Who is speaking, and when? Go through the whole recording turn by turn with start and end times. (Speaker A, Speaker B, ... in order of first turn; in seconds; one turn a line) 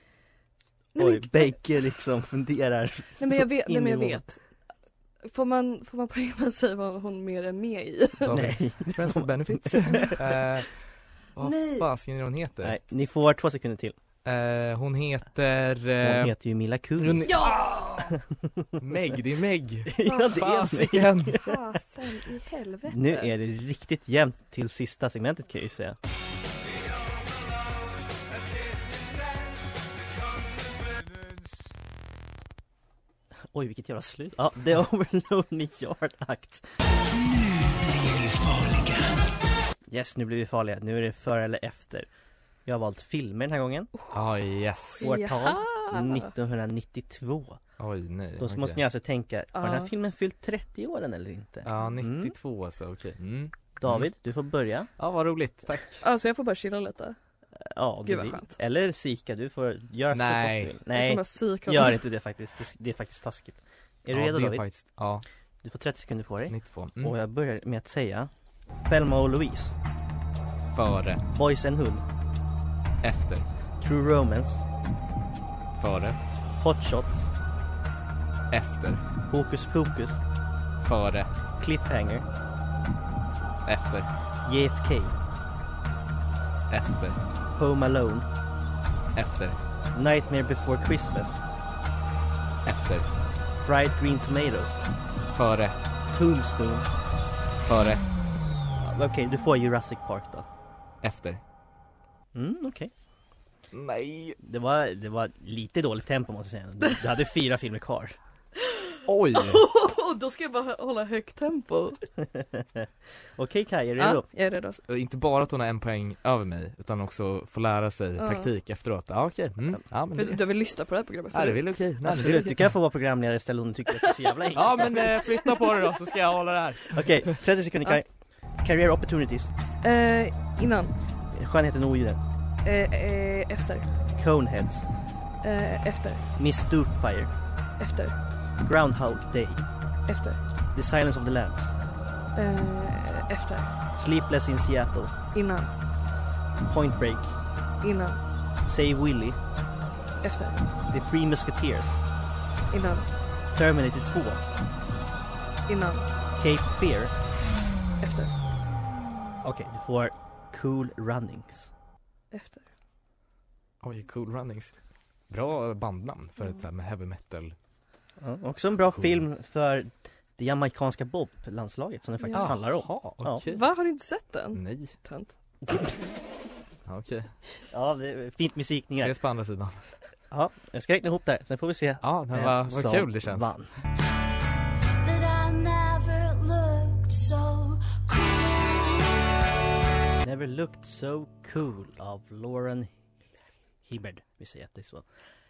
Speaker A: 0.9-1.6
Speaker B: 0.9-4.2
Speaker A: 3.2-4.5
Speaker A: 5.2-8.3
Speaker C: 8.2-12.8
Speaker B: 8.3-10.1
Speaker A: 11.4-11.8
Speaker B: 12.6-13.9
Speaker C: 14.2-16.3
Speaker B: 16.0-17.4
Speaker C: 17.0-17.8
Speaker A: 17.2-18.1
Speaker C: 18.8-21.4
Speaker B: 19.9-21.6
Speaker A: 20.0-20.3
Speaker A: 21.3-23.3
Speaker B: 22.9-26.0
Speaker B: 33.5-36.6
Speaker B: 39.9-42.1
Speaker B: 42.6-43.9
Speaker C: 44.1-45.1
Speaker A: 45.0-46.3
Speaker B: 45.0-47.6
Speaker C: 47.8-48.8
Speaker B: 48.4-52.3
Speaker A: 49.5-49.9
Speaker C: 51.6-54.1
Speaker B: 53.8-54.9
Speaker C: 55.0-56.0
Speaker A: 56.0-57.1
Speaker B: 57.6-64.6
Speaker A: 58.0-58.6
Speaker C: 60.1-60.7
Speaker A: 60.9-62.0
Speaker C: 64.1-65.2
Speaker B: 65.6-68.3
Speaker C: 66.5-67.2
Speaker B: 68.8-69.8
Speaker C: 70.7-71.2
Speaker B: 71.3-72.0
Speaker C: 73.0-73.5
Speaker B: 73.8-74.6
Speaker C: 75.7-76.2
Speaker B: 76.6-77.3
Speaker C: 78.5-79.0
Speaker B: 79.3-80.2
Speaker C: 80.8-81.3
Speaker B: 81.6-82.2
Speaker C: 83.7-84.1
Speaker B: 84.4-85.1
Speaker C: 86.7-87.2
Speaker B: 87.5-88.3
Speaker C: 89.1-89.6
Speaker B: 89.9-91.4
Speaker C: 92.6-93.1
Speaker B: 93.5-94.8
Speaker C: 95.3-95.8
Speaker B: 96.1-96.9
Speaker C: 97.6-98.0
Speaker B: 98.8-100.5
Speaker C: 101.0-101.4
Speaker B: 102.3-102.9
Speaker C: 103.7-104.4
Speaker B: 104.4-108.2
Speaker A: 108.6-112.0
Speaker C: 109.1-109.6
Speaker B: 112.3-114.2
Speaker A: 114.0-114.8
Speaker C: 114.9-120.4
Speaker A: 118.2-118.5
Speaker A: 120.1-121.6
Speaker C: 121.3-122.6
Speaker B: 122.0-125.1
Speaker C: 124.5-127.4
Speaker A: 125.1-125.6
Speaker B: 126.9-128.1
Speaker B: 128.6-129.5
Speaker A: 129.8-130.9
Speaker B: 131.3-132.2
Speaker A: 132.6-133.9
Speaker B: 134.2-134.9
Speaker A: 135.4-136.3
Speaker B: 136.4-137.3
Speaker A: 137.8-138.2
Speaker B: 138.6-139.6
Speaker A: 140.1-140.4
Speaker B: 140.7-141.7
Speaker A: 142.3-143.7
Speaker B: 143.9-145.1
Speaker A: 145.3-145.7
Speaker B: 146.6-147.3
Speaker A: 147.8-148.2
Speaker B: 148.6-149.4
Speaker A: 150.2-150.6
Speaker B: 150.9-152.0
Speaker A: 152.7-153.1
Speaker B: 153.5-154.4
Speaker A: 155.7-156.1
Speaker B: 156.3-157.1
Speaker A: 158.0-158.3
Speaker B: 159.4-161.7
Speaker A: 162.3-162.6
Speaker C: 163.8-164.7
Speaker C: 165.3-167.5
Speaker B: 168.2-173.4
Speaker A: 172.2-172.5
Speaker C: 172.3-173.6
Speaker A: 173.5-175.3
Speaker C: 174.5-174.9
Speaker C: 176.8-177.4
Speaker B: 177.7-179.1
Speaker C: 179.0-180.0
Speaker B: 180.3-183.7
Speaker C: 182.0-183.5
Speaker D: 184.9-189.2
Speaker B: 190.2-192.9
Speaker B: 193.8-195.0